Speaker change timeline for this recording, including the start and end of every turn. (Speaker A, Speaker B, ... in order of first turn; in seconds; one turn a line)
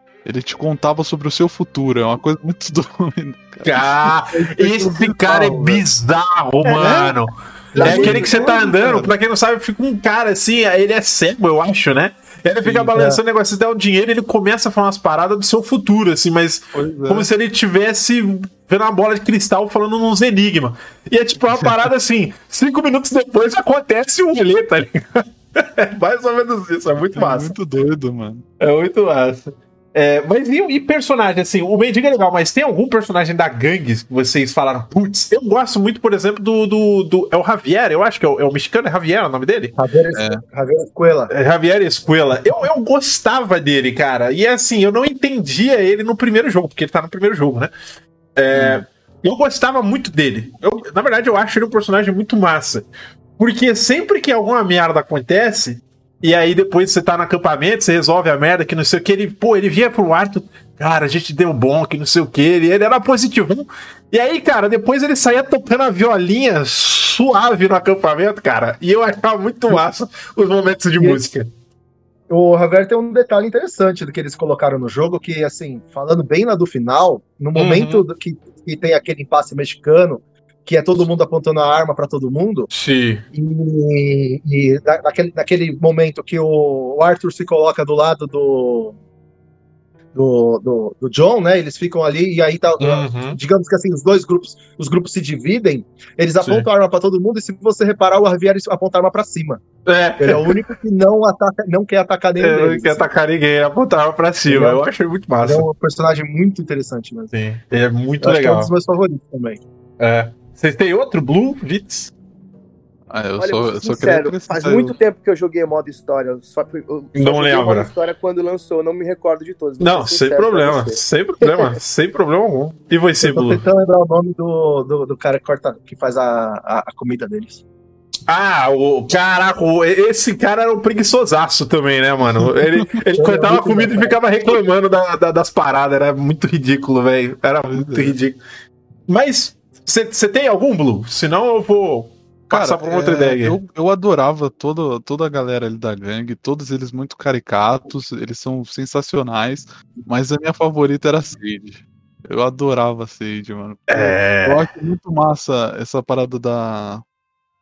Speaker A: 0.2-5.8
Speaker B: 3.6-27.6
Speaker A: 6.8-7.2
Speaker C: 7.7-8.2
Speaker A: 7.8-9.1
Speaker A: 12.6-12.9
Speaker C: 12.9-13.2
Speaker A: 16.7-17.3
Speaker A: 27.0-28.4
Speaker B: 28.6-39.7
Speaker C: 39.8-41.3
Speaker A: 40.1-40.4
Speaker B: 41.3-47.7
Speaker B: 48.4-71.5
Speaker A: 48.5-48.8
Speaker C: 72.3-82.7
Speaker B: 77.6-78.0
Speaker B: 82.7-83.2
Speaker C: 83.3-89.0
Speaker C: 90.2-99.6
Speaker B: 92.8-93.4
Speaker B: 96.4-96.7
Speaker B: 99.9-100.6
Speaker C: 100.2-103.1
Speaker B: 102.4-105.7
Speaker C: 104.5-104.8
Speaker C: 105.4-107.3
Speaker B: 107.3-108.7
Speaker C: 108.2-109.6
Speaker B: 110.0-112.1
Speaker A: 113.1-115.0
Speaker D: 113.4-121.0
Speaker B: 117.2-117.9
Speaker B: 119.8-123.6
Speaker C: 123.2-127.6
Speaker B: 128.3-138.4
Speaker A: 132.4-133.0
Speaker C: 133.2-134.2
Speaker A: 137.7-138.2
Speaker B: 139.1-143.6
Speaker A: 142.5-157.0
Speaker B: 153.9-154.7